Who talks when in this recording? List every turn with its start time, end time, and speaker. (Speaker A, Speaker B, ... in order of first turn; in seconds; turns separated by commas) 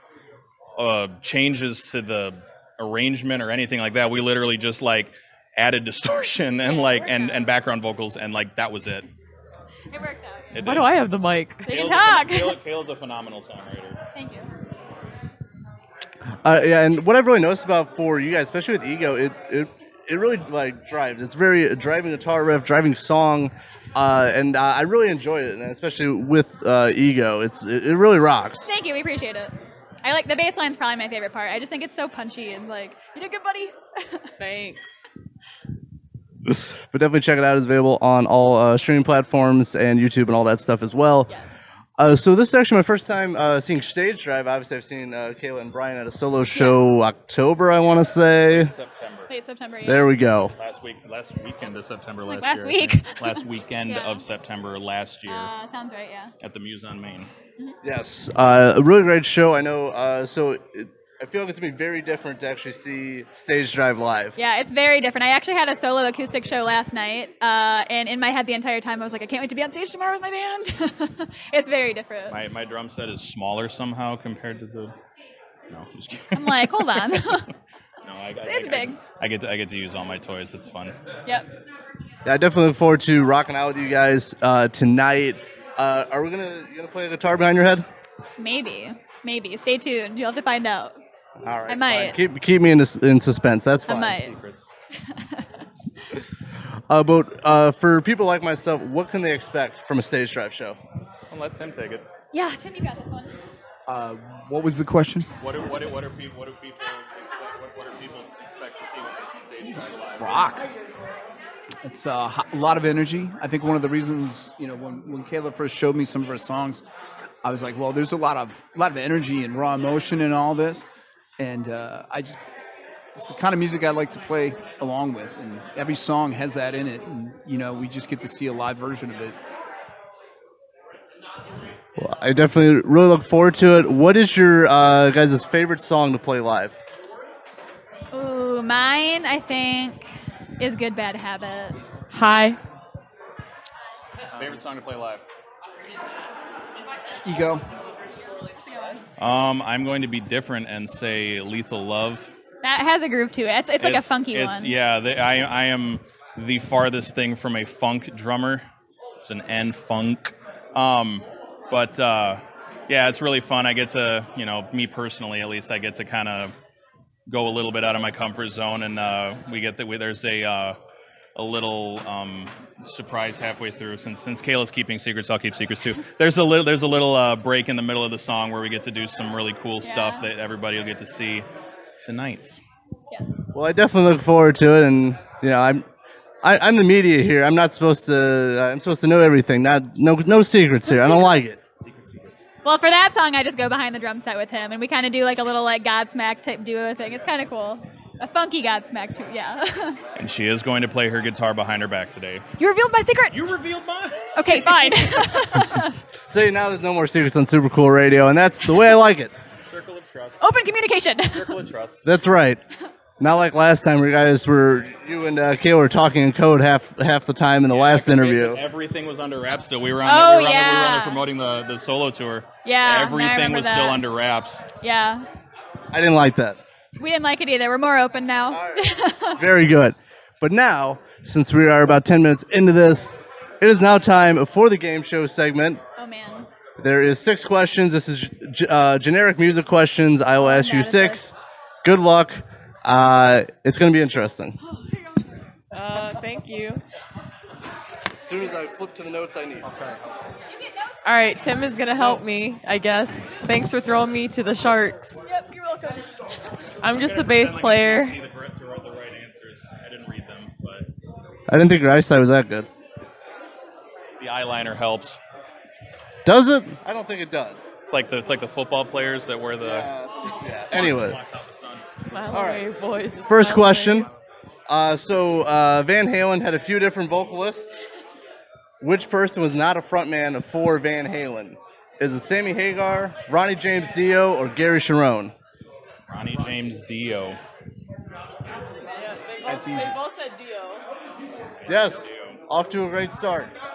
Speaker A: 0.8-9.1, Speaker B: 6.6-7.5, Speaker B: 9.9-10.5, Speaker A: 10.5-10.9, Speaker C: 10.6-11.7, Speaker B: 11.6-12.6, Speaker A: 11.7-14.0, Speaker B: 14.1-14.5, Speaker D: 16.4-28.7, Speaker B: 28.6-29.5, Speaker B: 30.0-34.3, Speaker C: 34.4-35.0, Speaker D: 36.5-41.3, Speaker D: 42.0-48.7, Speaker B: 46.5-46.8, Speaker A: 48.4-49.3, Speaker B: 49.3-50.1, Speaker D: 49.8-50.5, Speaker A: 50.5-55.5, Speaker B: 52.3-54.2, Speaker B: 55.3-56.3, Speaker A: 56.4-57.3, Speaker D: 57.8-64.3, Speaker B: 64.4-72.3, Speaker A: 72.3-74.9, Speaker A: 75.7-77.3, Speaker B: 76.3-77.5, Speaker A: 78.0-81.0, Speaker B: 78.4-79.0, Speaker D: 82.2-87.8, Speaker B: 88.4-91.0, Speaker D: 91.4-94.3, Speaker B: 91.7-92.2, Speaker B: 93.9-94.3, Speaker A: 94.2-94.7, Speaker B: 95.1-95.5, Speaker D: 96.9-100.8, Speaker A: 101.3-102.0, Speaker B: 102.3-103.3, Speaker E: 103.9-105.3, Speaker A: 105.4-110.6, Speaker E: 109.7-110.7, Speaker E: 111.8-116.8, Speaker E: 117.4-120.8, Speaker E: 121.4-122.4, Speaker E: 123.2-129.3, Speaker D: 132.0-136.8, Speaker B: 138.1-140.1, Speaker B: 140.6-141.7, Speaker C: 142.1-142.6, Speaker A: 144.3-145.2, Speaker E: 147.2-147.6, Speaker B: 148.6-149.0, Speaker A: 149.2-152.3, Speaker B: 152.6-154.7, Speaker A: 153.8-158.6, Speaker A: 159.2-166.5, Speaker A: 167.3-170.8, Speaker A: 171.3-181.4, Speaker B: 179.8-180.2, Speaker A: 182.0-182.6, Speaker D: 183.5-185.8, Speaker D: 186.4-191.6, Speaker B: 190.9-191.2, Speaker A: 191.8-192.4, Speaker B: 192.6-200.0, Speaker A: 200.2-202.4, Speaker B: 202.6-203.4, Speaker A: 203.3-205.1, Speaker B: 204.3-205.9, Speaker D: 206.3-209.3, Speaker A: 209.7-210.4, Speaker B: 210.4-211.5, Speaker A: 211.3-212.1, Speaker D: 212.0-212.6, Speaker D: 213.2-218.6, Speaker A: 217.7-224.6, Speaker B: 220.0-221.2, Speaker B: 222.6-224.0, Speaker B: 224.8-225.2, Speaker D: 225.9-226.6, Speaker B: 227.0-229.4, Speaker D: 228.5-235.8, Speaker B: 236.0-236.5, Speaker D: 236.8-244.6, Speaker B: 240.4-241.3, Speaker B: 244.8-245.2, Speaker C: 245.7-246.8, Speaker D: 248.1-249.7, Speaker A: 249.6-250.3, Speaker B: 250.5-250.9, Speaker C: 251.0-255.2, Speaker B: 255.2-256.1, Speaker C: 256.8-258.2, Speaker A: 256.9-260.9, Speaker D: 261.5-262.7, Speaker A: 264.2-265.2, Speaker D: 266.2-267.6, Speaker A: 267.8-269.9, Speaker D: 269.6-271.2, Speaker A: 270.7-271.9, Speaker C: 272.0-274.1, Speaker D: 272.3-272.6, Speaker D: 273.2-274.1, Speaker D: 274.7-277.8, Speaker D: 278.8-285.3, Speaker A: 286.1-287.4, Speaker C: 288.9-290.8, Speaker E: 289.4-290.0, Speaker A: 291.6-292.4, Speaker D: 291.7-293.5